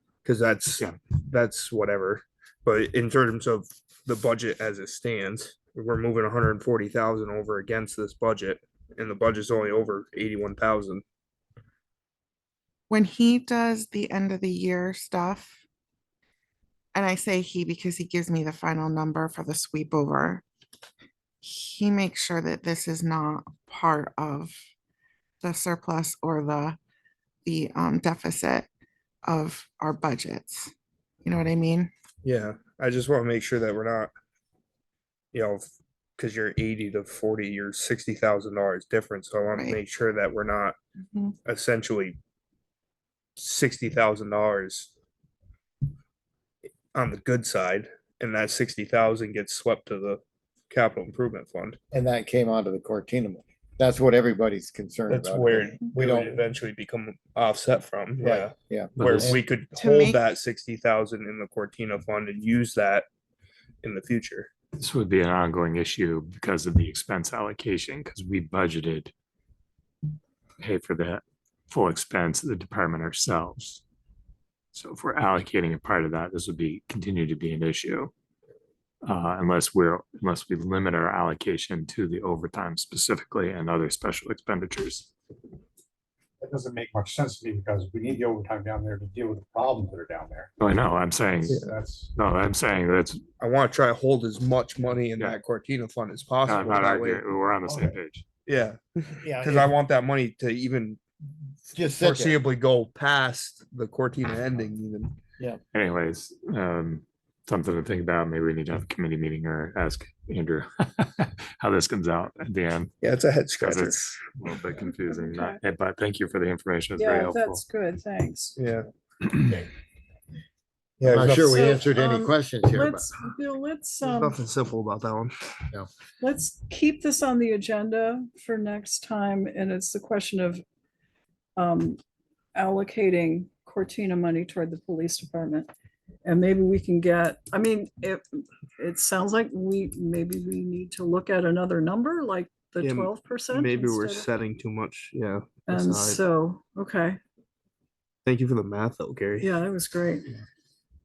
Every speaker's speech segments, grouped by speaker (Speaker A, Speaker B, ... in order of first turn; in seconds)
Speaker A: 0.2-11.0, 32.2-34.1, 35.3-40.8, 41.5-42.2, 43.4-44.9, 46.9-51.8, 55.1-63.0, 63.8-64.5, 93.4-97.2, 98.5-101.0, 101.7-105.2, 113.0-114.1, 118.6-118.9, 121.0-121.7, 124.0-125.3, 142.8-146.2, 148.2-149.5
Speaker B: 12.9-15.6, 16.9-20.4, 21.4-24.6, 25.4-26.8, 27.4-28.7, 29.2-30.7, 31.2-31.9, 59.7-60.2
Speaker C: 51.9-56.4, 58.2-59.4, 99.2-99.7, 101.7-102.4, 121.0-123.1
Speaker D: 59.0-59.3, 64.8-69.1, 70.6-73.8, 74.7-78.1, 79.0-85.1, 90.6-93.2, 96.5-98.2, 105.7-112.9, 113.6-117.6
Speaker E: 86.4-90.5, 91.5-92.1
Speaker F: 114.8-115.6, 117.0-118.5, 121.5-124.4, 126.2-130.6, 131.6-132.0, 132.5-135.7, 136.2-144.3, 145.7-147.2, 149.4-150.4